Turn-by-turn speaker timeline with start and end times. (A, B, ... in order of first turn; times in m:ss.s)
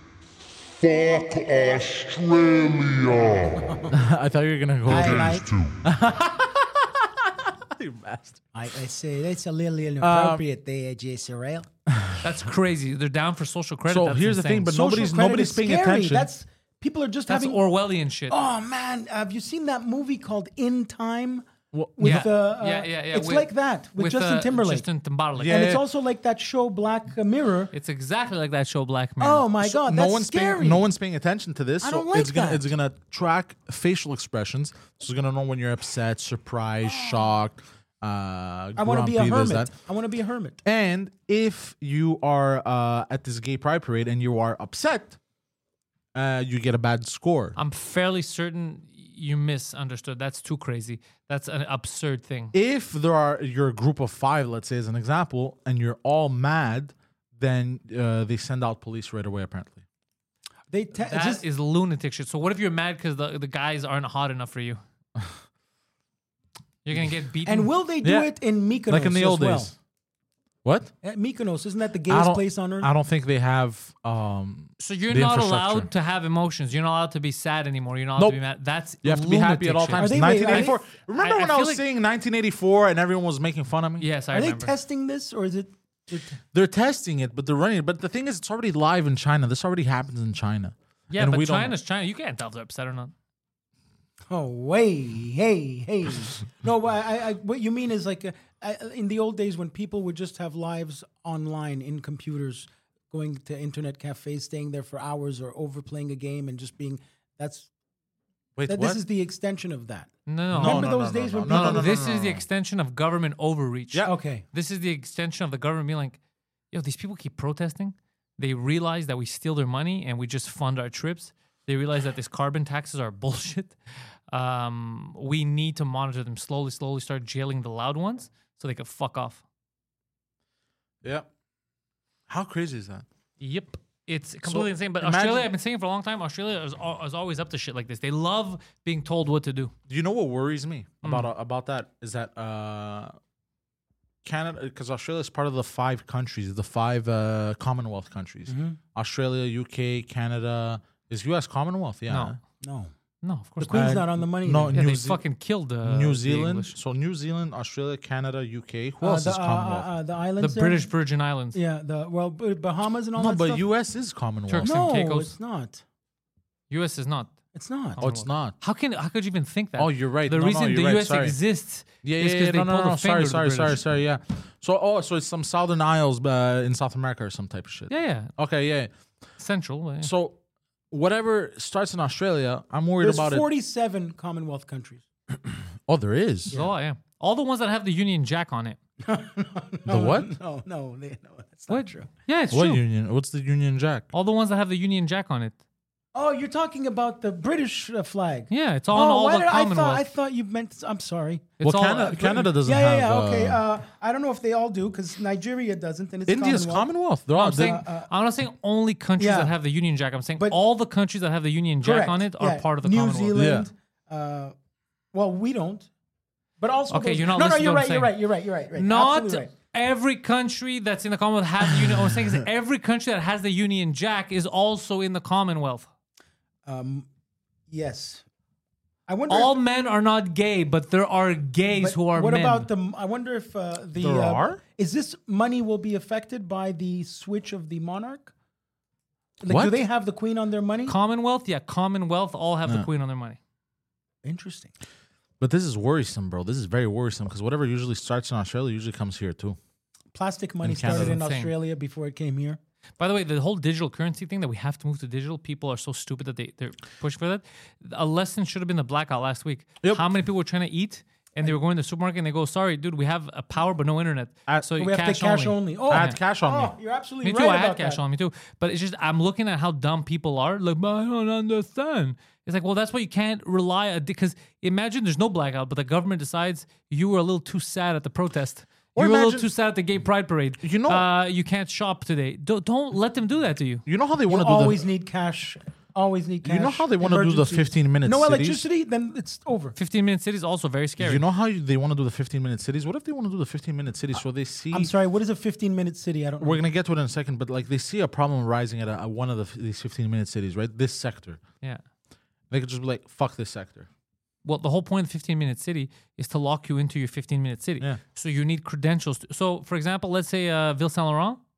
0:00.7-0:03.7 A
0:03.4-0:03.9 B
0:03.9-0:08.4 C
0:04.8-0:05.8 A
0:04.9-0:05.4 B
0:08.5-0:11.7 B
0:10.0-0:10.4 C
0:11.9-0:12.3 C
0:12.2-0:14.7 D
0:13.9-0:16.3 C
0:14.7-0:17.6 B
0:17.3-0:18.4 D
0:18.3-0:24.9 B
0:21.7-0:22.3 C
0:22.0-0:25.7 D
0:25.4-0:25.8 C
0:25.4-0:27.7 B
0:27.7-0:29.4 D
0:29.2-0:30.9 B
0:29.6-0:39.7 C
0:31.8-0:32.7 B
0:36.9-0:37.3 B
0:38.8-0:40.6 B
0:40.6-0:45.2 C
0:46.1-0:47.6 C
0:47.6-0:52.5 D
0:52.5-0:59.8 C
1:00.7-1:01.4 B
1:01.0-1:04.8 D
1:06.8-1:07.7 D
1:07.4-1:09.7 B
1:08.0-1:08.3 C
1:08.9-1:09.7 C
1:10.6-1:10.9 C
1:11.0-1:12.9 B
1:12.1-1:15.9 C
1:14.8-1:21.8 D
1:19.0-1:24.1 C
1:20.0-1:20.8 B
1:24.0-1:24.7 D
1:24.3-1:26.4 B
1:26.5-1:31.7 C
1:31.1-1:33.1 D
1:34.3-1:47.7 B
1:48.6-1:49.0 C
1:48.7-1:51.9 B
1:50.3-1:56.2 D
1:50.5-1:52.4 C
1:54.0-1:54.4 B
1:56.7-2:03.8 D
2:04.3-2:09.4 D
2:11.0-2:11.3 C
2:12.3-2:13.0 C
2:13.4-2:19.7 D
2:14.4-2:15.5 C
2:19.9-2:23.1 C
2:21.0-2:21.3 D
2:24.2-2:32.4 C
2:28.5-2:28.8 B
2:32.1-2:32.4 D
2:32.6-2:32.9 B
2:33.2-2:34.1 D
2:33.6-2:34.8 B
2:33.7-2:35.2 C
2:34.7-2:36.7 D
2:35.8-2:39.9 C
2:39.0-2:40.9 B
2:40.4-2:41.6 D
2:41.5-2:43.6 B
2:43.1-2:44.8 C
2:44.5-2:45.3 D
2:44.6-2:45.8 B
2:46.7-2:47.3 D
2:47.5-2:48.0 B
2:48.0-2:53.8 D
2:48.0-2:48.5 C
2:49.8-2:51.4 C
2:52.0-2:58.9 C
2:57.9-2:58.3 D
2:59.4-3:00.1 D
3:00.0-3:00.4 C
3:00.9-3:03.4 C
3:03.0-3:05.0 B
3:05.8-3:06.5 C
3:06.5-3:08.8 D
3:09.0-3:12.1 B
3:09.8-3:10.3 C
3:11.7-3:12.8 D
3:12.5-3:14.1 C
3:14.1-3:15.6 D
3:16.1-3:21.5 B
3:18.5-3:20.0 D
3:21.6-3:22.4 D
3:21.6-3:23.6 C
3:22.1-3:26.9 B
3:26.3-3:27.8 C
3:27.3-3:33.4 D
3:27.5-3:28.1 B
3:29.2-3:29.5 B
3:31.8-3:34.5 B
3:33.3-3:33.7 C
3:35.1-3:35.9 B
3:36.6-3:39.5 B
3:36.9-3:38.1 D
3:38.7-3:45.9 D
3:41.8-3:42.1 C
3:46.6-3:47.1 B
3:47.7-3:48.2 B
3:49.1-3:49.5 B
3:49.3-3:52.7 D
3:51.8-3:58.3 B
3:54.0-3:54.6 C
3:59.4-4:00.9 B
3:59.4-3:59.8 C
4:00.9-4:03.4 D
4:04.2-4:04.7 B
4:05.4-4:09.6 C
4:10.1-4:12.6 B
4:10.6-4:11.2 C
4:10.9-4:11.5 D
4:13.0-4:26.2 D
4:19.8-4:20.1 C
4:24.8-4:28.0 B
4:25.9-4:26.7 C
4:27.2-4:43.8 D
4:38.9-4:39.5 C
4:40.6-4:41.0 C
4:43.8-4:44.8 C
4:44.3-4:49.8 B
4:46.4-4:48.6 C
4:49.8-4:51.2 D
4:51.0-4:54.9 C
4:54.7-4:56.6 B
4:56.4-5:01.4 C
5:02.5-5:03.9 C
5:04.4-5:11.4 D